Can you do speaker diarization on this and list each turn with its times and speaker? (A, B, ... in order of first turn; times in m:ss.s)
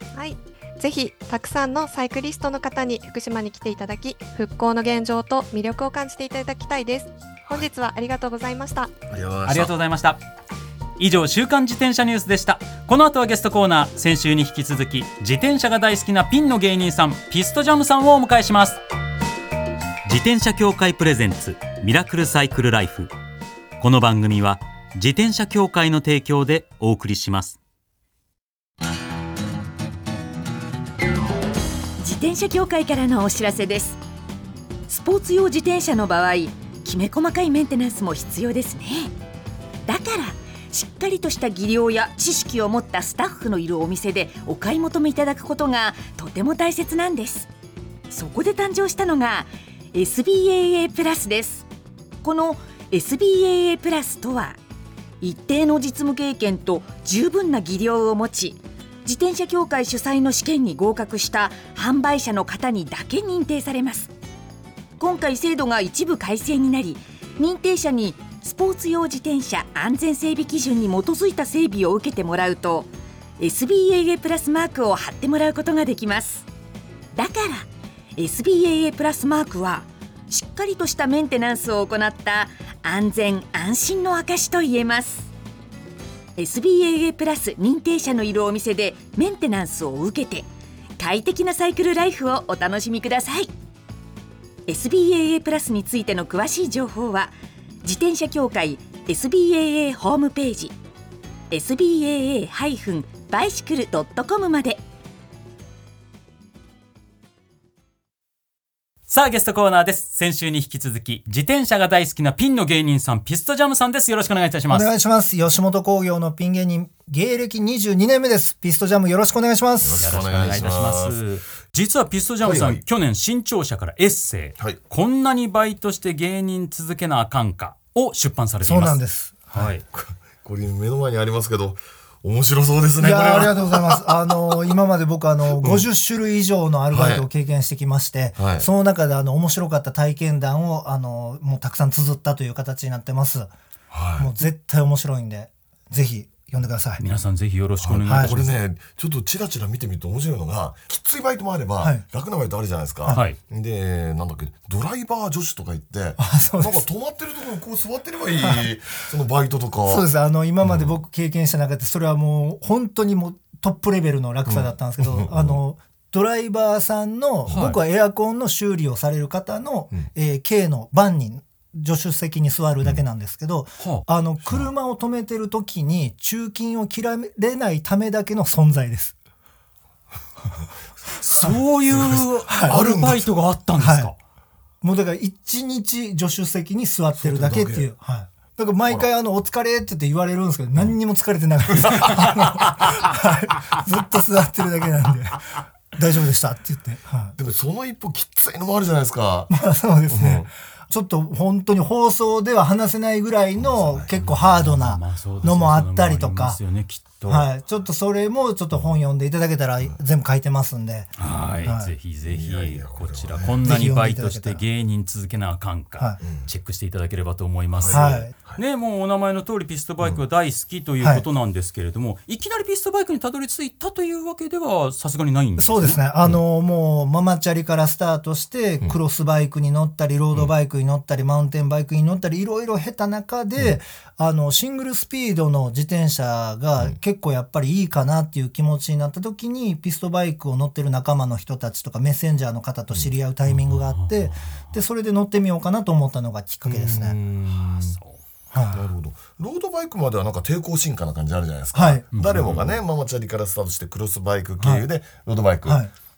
0:00.1-0:08.9 A
0:09.1-0:09.7 B
0:09.4-0:10.2 C
0:11.0-0:18.8 C
0:20.0-0:23.1 C
0:23.8-0:27.6 C
0:32.0-0:34.0 D
0:34.9-0:39.1 D
0:39.8-0:47.5 D
0:48.1-0:51.7 D
0:52.2-0:54.6 D
0:55.2-1:04.1 D
1:05.0-1:16.5 D
1:17.1-1:25.3 D
1:26.4-1:30.5 D
1:31.0-1:33.5 D
1:34.7-1:40.8 D
1:41.5-1:44.8 D
1:49.1-1:54.9 C
1:54.7-2:00.2 E
1:59.8-2:01.2 B
2:00.0-2:09.0 C
2:02.4-2:02.8 B
2:08.6-2:09.7 E
2:09.5-2:09.8 C
2:09.9-2:14.7 B
2:13.0-2:23.5 E
2:15.6-2:15.8 B
2:16.9-2:17.2 B
2:18.4-2:18.7 B
2:23.9-2:24.3 B
2:24.2-2:27.0 E
2:27.0-2:28.5 C
2:27.8-2:40.0 B
2:28.1-2:28.3 E
2:33.1-2:33.4 C
2:36.2-2:36.8 E
2:38.4-2:38.6 E
2:39.8-2:59.2 E
2:40.6-2:40.9 B
2:44.5-2:45.6 B
2:47.5-2:47.8 C
3:01.2-3:04.2 C
3:01.4-3:03.2 B
3:02.5-3:02.8 E
3:03.8-3:04.1 E
3:04.8-3:17.3 E
3:07.2-3:07.9 B
3:11.8-3:12.2 B
3:17.4-3:19.5 B
3:19.5-3:26.6 E
3:20.1-3:20.5 B
3:23.6-3:24.2 B
3:24.2-3:27.5 C
3:27.2-3:31.1 E
3:31.2-3:46.0 C
3:31.6-3:31.9 E
3:32.2-3:33.7 B
3:33.6-3:34.6 E
3:36.2-3:36.5 B
3:37.7-3:38.6 B
3:37.9-3:38.3 E
3:45.6-4:07.2 E
4:03.4-4:04.7 C
4:06.6-4:08.0 B
4:07.5-4:08.2 C
4:08.5-4:08.8 E
4:08.7-4:15.8 B
4:11.7-4:12.0 E
4:12.1-4:12.8 C
4:14.6-4:14.9 E
4:15.6-4:15.9 E